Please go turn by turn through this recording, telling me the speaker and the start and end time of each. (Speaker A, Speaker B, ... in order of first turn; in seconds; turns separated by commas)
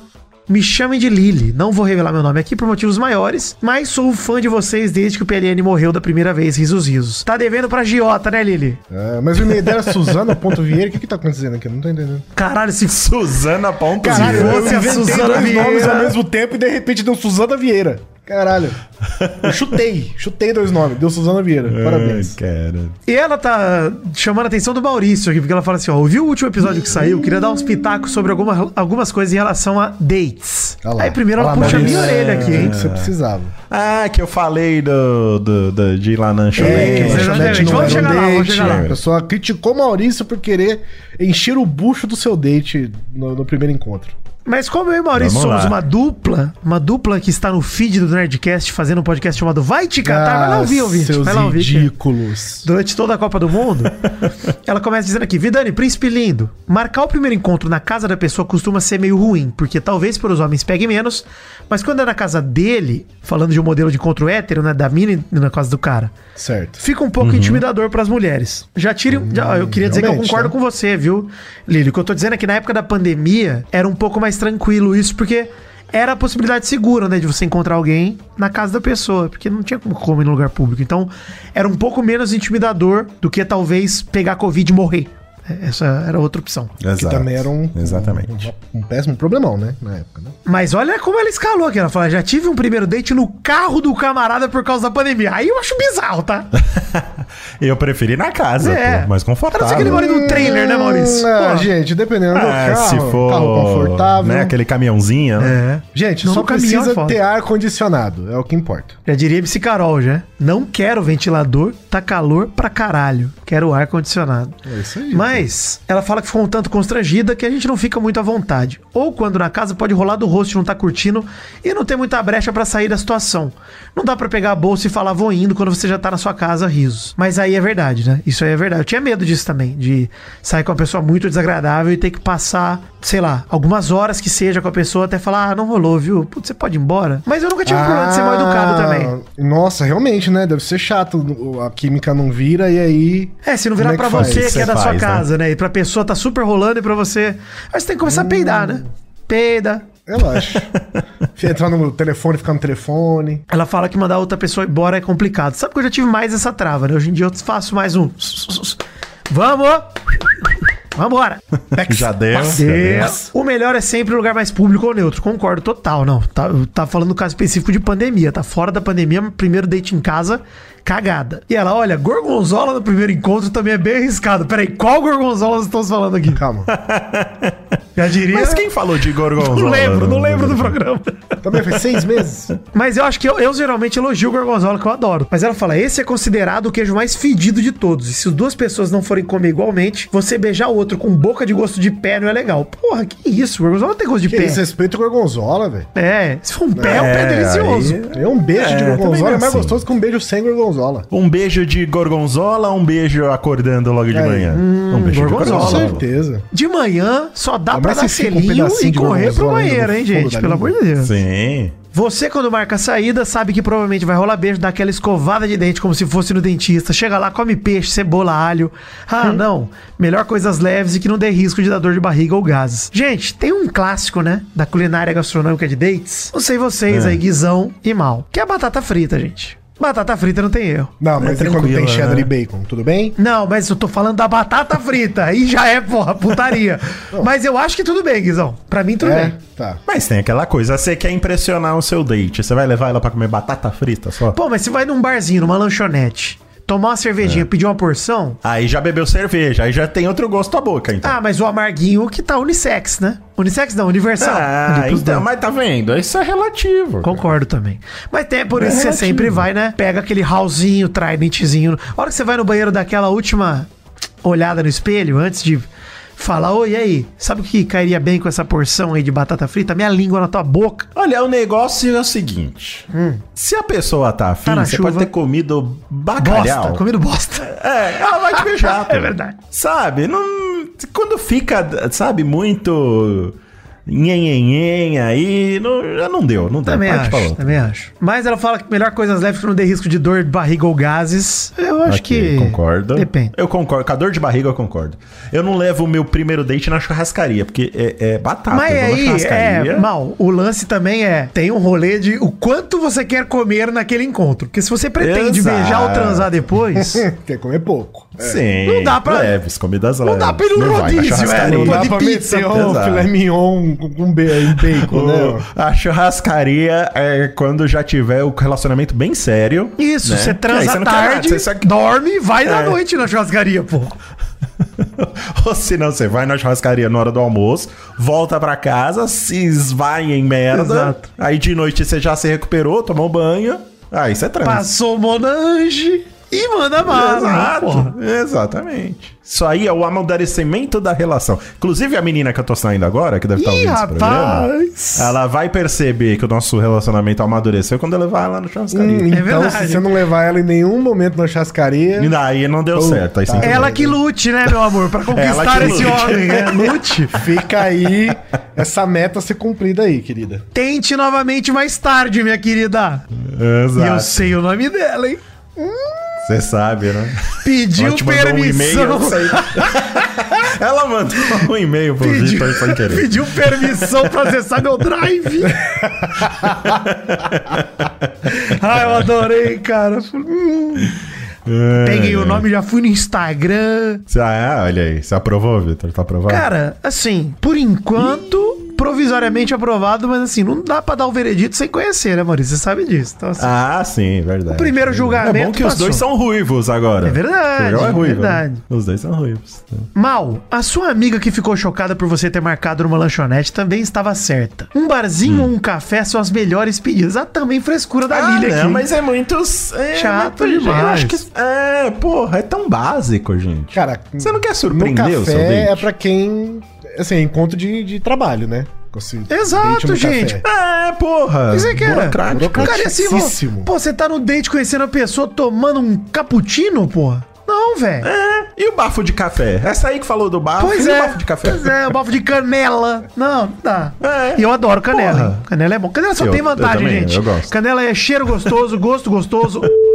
Speaker A: 0.5-8.8, Speaker B: 8.9-12.2, Speaker C: 9.5-10.3, Speaker A: 12.4-13.1, Speaker C: 12.9-16.1, Speaker B: 14.0-18.8, Speaker A: 14.0-16.1, Speaker C: 19.2-19.6, Speaker B: 19.4-22.4, Speaker C: 21.7-23.0, Speaker A: 23.1-32.8, Speaker B: 30.8-33.5, Speaker C: 31.6-33.1, Speaker C: 33.7-39.0, Speaker A: 36.6-38.8, Speaker B: 36.6-44.1, Speaker A: 44.5-51.9, Speaker C: 45.1-45.8, Speaker B: 50.0-52.7, Speaker A: 52.6-54.0, Speaker A: 54.6-66.1, Speaker B: 66.3-66.8, Speaker A: 66.8-86.7, Speaker C: 67.2-67.6, Speaker B: 69.1-70.6, Speaker C: 86.8-88.5, Speaker B: 87.0-90.4, Speaker A: 90.5-96.5, Speaker C: 96.6-100.1, Speaker A: 98.6-101.7, Speaker B: 99.7-104.6, Speaker C: 102.3-105.6, Speaker A: 105.4-107.2, Speaker B: 105.9-109.0, Speaker A: 109.1-139.1, Speaker B: 114.6-115.5, Speaker B: 137.6-144.7, Speaker A: 143.4-149.9, Speaker C: 144.1-145.2, Speaker B: 148.0-148.9, Speaker B: 150.1-150.7, Speaker B: 151.4-153.4, Speaker A: 153.5-161.4, Speaker C: 161.7-163.2, Speaker B: 161.9-162.6, Speaker A: 162.3-176.4, Speaker B: 176.4-176.7, Speaker C: 176.7-177.6, Speaker A: 177.9-178.7, Speaker C: 178.3-180.8, Speaker A: 179.3-181.8, Speaker B: 181.4-182.5, Speaker A: 182.7-194.6, Speaker B: 194.3-195.9, Speaker A: 195.9-198.0, Speaker B: 196.7-197.1, Speaker C: 196.8-199.8, Speaker B: 198.1-201.1, Speaker C: 201.1-206.0, Speaker B: 204.1-204.6, Speaker A: 204.5-206.0, Speaker B: 205.3-206.5, Speaker A: 206.5-211.1, Speaker B: 207.7-210.8, Speaker C: 211.0-211.8, Speaker A: 211.9-230.9, Speaker C: 226.9-227.2, Speaker B: 231.0-233.2, Speaker C: 231.2-232.3, Speaker A: 233.2-239.4, Speaker B: 239.0-239.8, Speaker C: 239.9-244.4, Speaker A: 244.3-248.4, Speaker C: 248.4-251.2, Speaker A: 251.0-255.3, Speaker C: 254.2-257.3, Speaker A: 257.0-263.7, Speaker C: 258.5-259.4, Speaker A: 264.2-270.9, Speaker C: 271.0-276.8, Speaker A: 272.9-273.2, Speaker A: 274.4-275.1, Speaker A: 276.2-279.4, Speaker C: 277.4-283.4, Speaker C: 283.9-287.7, Speaker A: 286.6-293.3, Speaker C: 291.9-299.9, Speaker A: 298.5-307.1, Speaker C: 305.0-306.3, Speaker B: 306.7-308.4, Speaker C: 308.2-313.1, Speaker A: 308.6-309.4, Speaker A: 310.0-312.6, Speaker B: 311.4-315.5, Speaker C: 314.5-321.7, Speaker A: 319.8-323.9, Speaker C: 322.4-322.8, Speaker C: 324.8-334.7, Speaker A: 330.5-331.1, Speaker A: 334.4-337.9, Speaker C: 336.8-349.1, Speaker A: 343.4-345.1, Speaker B: 348.7-352.1, Speaker A: 349.1-349.9, Speaker C: 352.0-353.8, Speaker B: 352.7-354.0, Speaker A: 353.4-357.2, Speaker C: 354.5-356.7, Speaker B: 357.1-360.4, Speaker A: 360.5-363.0, Speaker C: 363.1-364.3, Speaker A: 363.8-365.7, Speaker C: 366.2-374.1, Speaker A: 367.4-369.7, Speaker A: 371.2-371.5, Speaker A: 372.0-375.6, Speaker C: 376.2-378.1, Speaker A: 378.2-380.9, Speaker C: 378.7-379.1, Speaker C: 381.5-382.5, Speaker A: 381.8-384.0, Speaker C: 384.1-386.5, Speaker A: 386.3-393.5, Speaker C: 388.0-388.7, Speaker C: 393.4-399.9, Speaker A: 394.5-396.0, Speaker A: 397.0-398.6, Speaker A: 399.9-408.9, Speaker C: 405.2-405.5, Speaker C: 408.1-415.9, Speaker A: 409.9-411.2, Speaker B: 413.7-420.4, Speaker A: 419.3-420.4, Speaker C: 420.4-422.9, Speaker A: 421.5-428.1, Speaker B: 422.2-423.7, Speaker C: 428.0-431.8, Speaker A: 430.6-439.7, Speaker C: 434.0-435.4, Speaker C: 436.2-437.5